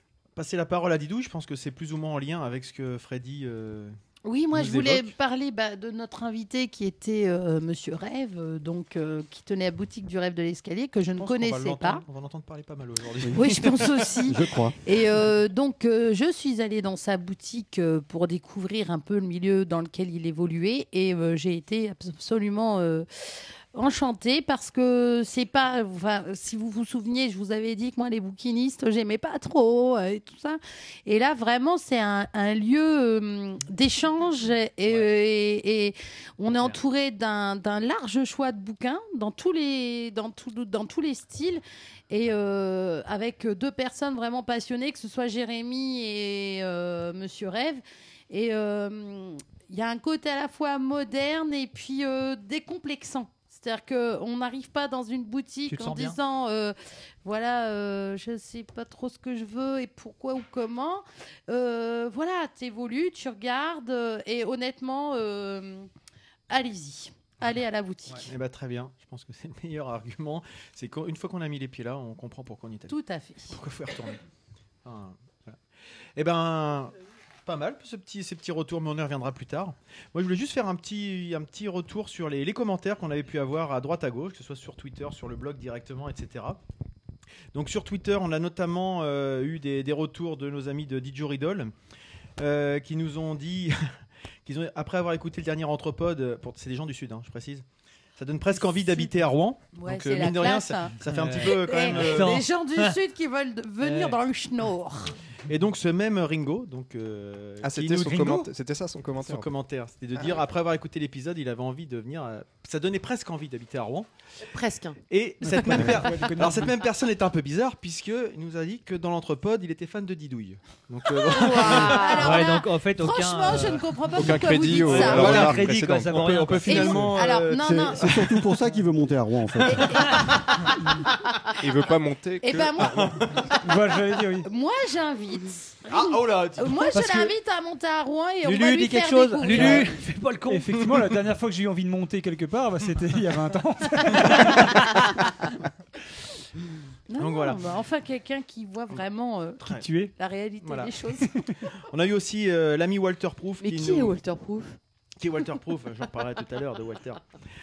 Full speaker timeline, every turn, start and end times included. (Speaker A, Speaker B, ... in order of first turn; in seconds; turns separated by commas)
Speaker A: 0.4-4.0, Speaker B: 4.2-12.1, Speaker A: 4.5-5.1, Speaker A: 11.1-14.0, Speaker B: 13.3-23.1, Speaker C: 14.2-14.8, Speaker B: 23.7-65.9, Speaker D: 34.9-35.1, Speaker D: 36.5-36.8, Speaker D: 55.7-56.2, Speaker B: 66.5-68.3, Speaker A: 68.2-73.0, Speaker B: 72.9-73.6, Speaker A: 73.5-74.2, Speaker A: 74.8-75.6, Speaker A: 76.2-76.9, Speaker A: 77.5-86.6, Speaker A: 87.5-91.7, Speaker A: 92.4-93.9, Speaker A: 94.5-97.6, Speaker A: 98.2-102.5, Speaker B: 98.5-105.2, Speaker D: 101.0-103.0, Speaker D: 103.8-104.2, Speaker A: 105.5-108.5, Speaker E: 107.6-109.5, Speaker A: 109.2-114.1, Speaker F: 114.4-115.0, Speaker A: 115.1-122.3, Speaker G: 115.4-116.8, Speaker F: 115.6-116.0, Speaker B: 121.3-125.5, Speaker F: 121.3-122.5, Speaker D: 122.0-124.2, Speaker E: 124.2-127.2, Speaker D: 124.8-127.1, Speaker A: 124.8-128.3, Speaker B: 126.7-128.1, Speaker C: 127.5-130.4, Speaker B: 129.7-131.5, Speaker E: 131.6-133.0, Speaker B: 132.4-133.1, Speaker A: 132.8-133.5, Speaker G: 133.6-134.5, Speaker B: 134.4-140.0, Speaker A: 135.9-137.2, Speaker D: 138.4-140.7, Speaker G: 139.5-139.9, Speaker G: 140.5-145.0, Speaker A: 140.7-141.1, Speaker B: 147.1-151.5, Speaker A: 147.2-147.7, Speaker G: 149.7-150.1, Speaker A: 150.6-151.0, Speaker A: 151.8-154.2, Speaker F: 153.6-154.8, Speaker A: 155.2-157.2